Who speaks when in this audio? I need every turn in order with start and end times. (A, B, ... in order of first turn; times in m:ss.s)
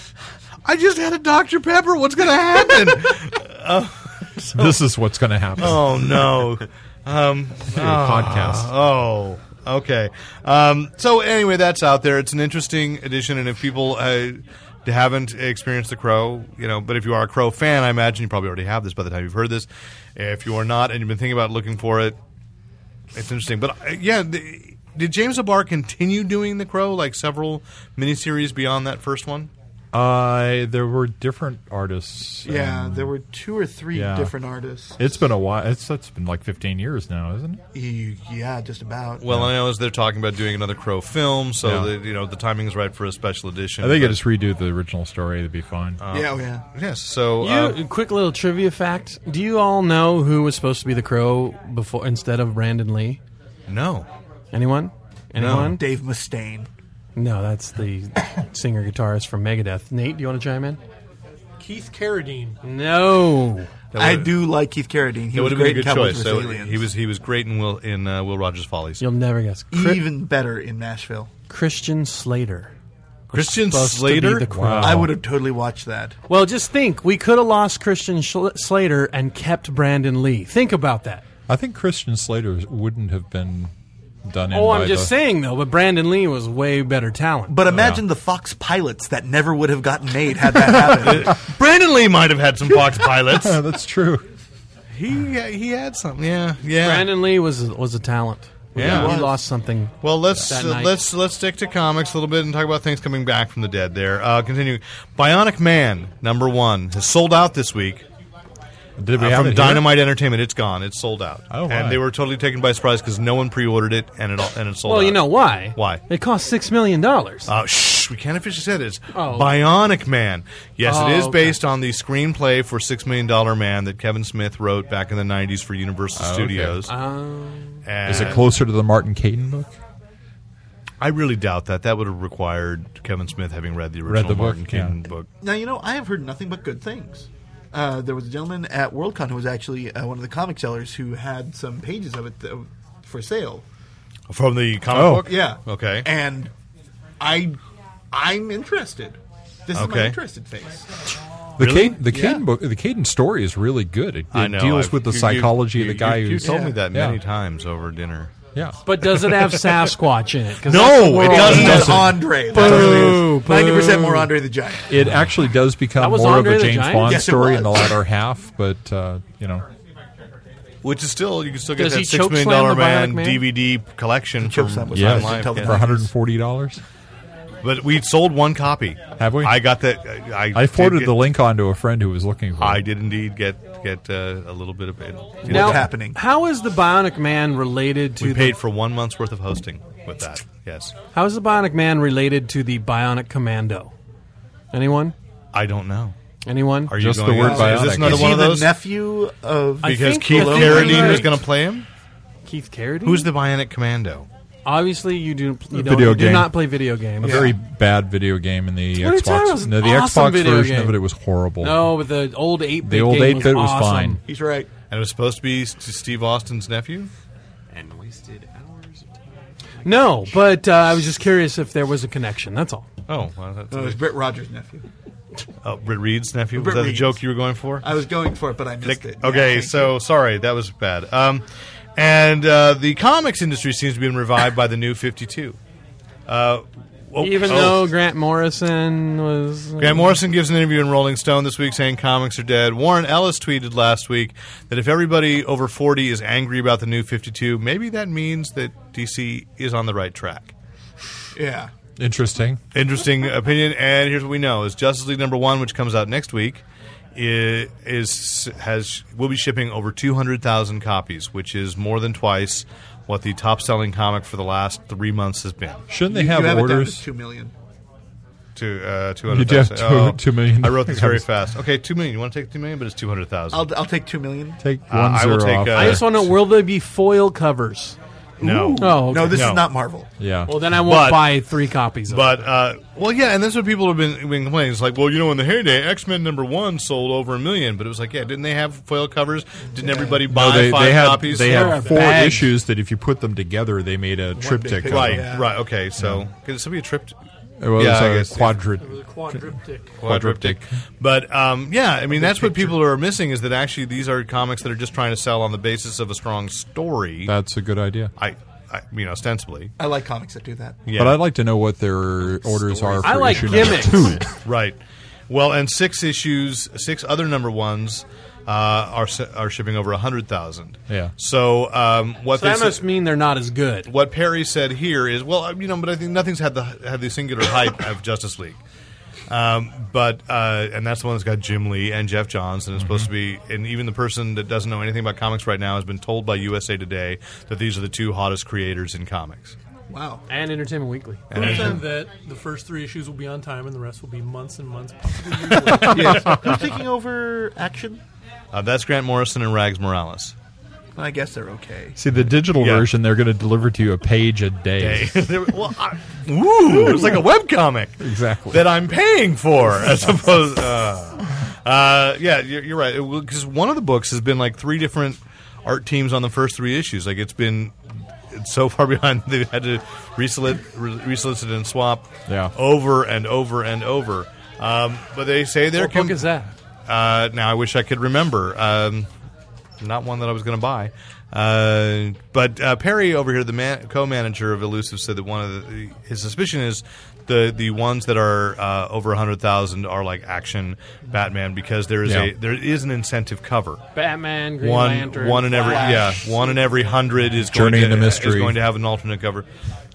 0:00.6-0:04.8 A
0:04.5-0:06.2 B
0:05.6-0:22.2 A
0:07.7-0:08.7 B
0:23.1-0:29.5 A
0:29.9-0:33.1 B
0:32.4-0:35.0 C
0:33.9-0:34.3 B
0:35.0-0:37.6 B
0:37.7-0:39.2 C
0:39.2-0:44.2 A
0:39.3-0:39.5 B
0:41.6-0:41.9 B
0:43.8-0:46.0 B
0:46.0-0:47.8 A
0:46.1-0:46.6 C
0:47.4-0:53.2 D
0:53.7-0:54.1 A
0:54.5-0:55.8 D
0:55.4-0:55.8 A
0:55.5-0:56.7 C
0:57.2-1:00.8 D
1:01.6-1:02.6 E
1:02.6-1:03.7 D
1:03.9-1:04.4 A
1:04.0-1:06.9 C
1:05.3-1:09.0 A
1:09.0-1:10.0 D
1:09.7-1:11.3 C
1:11.5-1:12.7 D
1:13.3-1:14.5 A
1:13.3-1:15.1 D
1:14.5-1:15.2 B
1:14.8-1:16.2 C
1:16.3-1:21.2 D
1:21.5-1:23.7 B
1:24.2-1:25.1 B
1:24.5-1:27.6 D
1:27.5-1:31.4 C
1:27.7-1:28.0 B
1:30.7-1:33.6 A
1:32.8-1:34.3 B
1:34.9-1:37.1 A
1:36.8-1:41.0 D
1:38.8-1:39.2 A
1:38.8-1:39.4 C
1:40.0-1:48.1 A
1:49.0-1:50.1 B
1:49.2-1:56.0 A
1:51.5-1:52.0 B
1:54.8-1:57.5 D
1:57.5-2:06.9 A
1:59.1-1:59.6 D
2:00.8-2:01.6 D
2:06.2-2:06.8 B
2:06.9-2:08.3 D
2:07.8-2:08.5 A
2:08.0-2:09.8 B
2:11.0-2:15.3 A
2:14.1-2:15.0 B
2:15.4-2:23.6 C
2:24.3-2:26.1 A
2:24.9-2:25.3 B
2:25.2-2:26.5 C
2:27.2-2:27.6 C
2:28.1-2:30.9 C
2:29.8-2:30.2 A
2:31.6-2:37.2 B
2:31.6-2:32.0 A
2:32.1-2:32.4 C
2:34.3-2:38.4 A
2:36.4-2:36.8 C
2:38.5-2:38.8 B
2:38.8-2:44.3 D
2:39.0-2:39.8 A
2:40.6-2:42.9 A
2:41.2-2:45.0 C
2:41.3-2:43.3 B
2:44.9-2:49.6 B
2:46.0-2:47.2 D
2:47.0-2:48.0 C
2:50.8-2:55.8 A
2:51.8-2:53.4 D
2:54.4-2:56.1 C
2:54.9-2:56.8 B
2:57.6-3:01.2 A
2:59.2-2:59.6 B
3:00.5-3:02.8 B
3:02.6-3:05.9 A
3:05.4-3:08.6 D
3:05.5-3:06.2 C
3:08.2-3:10.9 A
3:11.1-3:13.9 D
3:14.7-3:15.2 D
3:15.5-3:16.2 A
3:16.4-3:16.9 D
3:16.9-3:18.8 A
3:16.9-3:18.4 B
3:17.4-3:21.4 C
3:19.8-3:21.4 D
3:19.8-3:21.9 A
3:22.5-3:23.3 D
3:23.0-3:24.3 A
3:24.6-3:27.4 D
3:25.7-3:26.6 B
3:27.2-3:32.0 B
3:27.2-3:27.6 C
3:29.0-3:31.0 D
3:31.6-3:34.2 D
3:32.8-3:34.2 B
3:34.3-3:34.7 C
3:34.9-3:37.1 A
3:37.7-3:40.2 F
3:39.8-3:42.9 D
3:43.1-3:44.0 A
3:43.7-3:44.9 C
3:45.6-3:47.9 A
3:46.6-3:47.2 C
3:47.8-3:50.0 C
3:48.8-3:51.4 A
3:52.0-3:55.6 A
3:56.3-3:57.9 A
3:57.2-4:00.2 D
3:59.8-4:10.5 A
4:11.4-4:11.7 C
4:12.0-4:12.6 B
4:12.7-4:16.6 A
4:17.2-4:25.8 A
4:25.9-4:27.0 B
4:26.1-4:27.5 C
4:28.6-4:33.7 A
4:29.3-4:31.3 B
4:33.5-4:34.6 C
4:34.6-4:36.3 B
4:34.9-4:36.3 A
4:35.7-4:38.0 D
4:38.4-4:39.7 A
4:38.4-4:40.1 C
4:38.8-4:39.6 D
4:40.2-4:40.7 B
4:40.5-4:42.4 D
4:40.8-4:41.4 A
4:42.1-4:52.0 A
4:49.8-4:50.2 C
4:50.3-4:55.3 B
4:51.4-4:52.5 D
4:54.4-4:55.5 C
4:54.9-4:57.2 A
4:56.0-4:56.2 B
4:57.6-4:59.4 B
4:57.8-4:58.6 A
4:58.7-5:00.0 E
5:00.0-5:00.7 B
5:00.0-5:07.3 A
5:02.1-5:02.8 C
5:07.3-5:08.1 B
5:08.2-5:09.7 A
5:09.8-5:10.8 C
5:10.9-5:11.2 A
5:11.0-5:14.3 B
5:13.0-5:14.2 D
5:14.4-5:14.8 A
5:15.3-5:22.8 A
5:22.3-5:23.9 D
5:23.9-5:28.6 A
5:29.3-5:39.6 A
5:32.8-5:33.1 B
5:39.9-5:40.2 C
5:40.3-5:41.3 D
5:41.3-5:41.8 A
5:41.4-5:46.4 E
5:41.4-5:41.8 C
5:45.7-5:46.3 A
5:45.8-5:48.0 C
5:48.5-5:50.3 A
5:51.0-5:52.0 C
5:52.0-5:55.3 B
5:52.6-5:52.9 A
5:54.8-6:07.8 A
5:58.0-5:58.7 B
6:08.3-6:19.1 A
6:12.3-6:12.5 B
6:15.8-6:16.5 D
6:19.8-6:33.8 A
6:32.0-6:32.3 B
6:34.0-6:36.3 D
6:34.6-6:39.5 A
6:35.6-6:36.6 C
6:37.4-6:38.6 B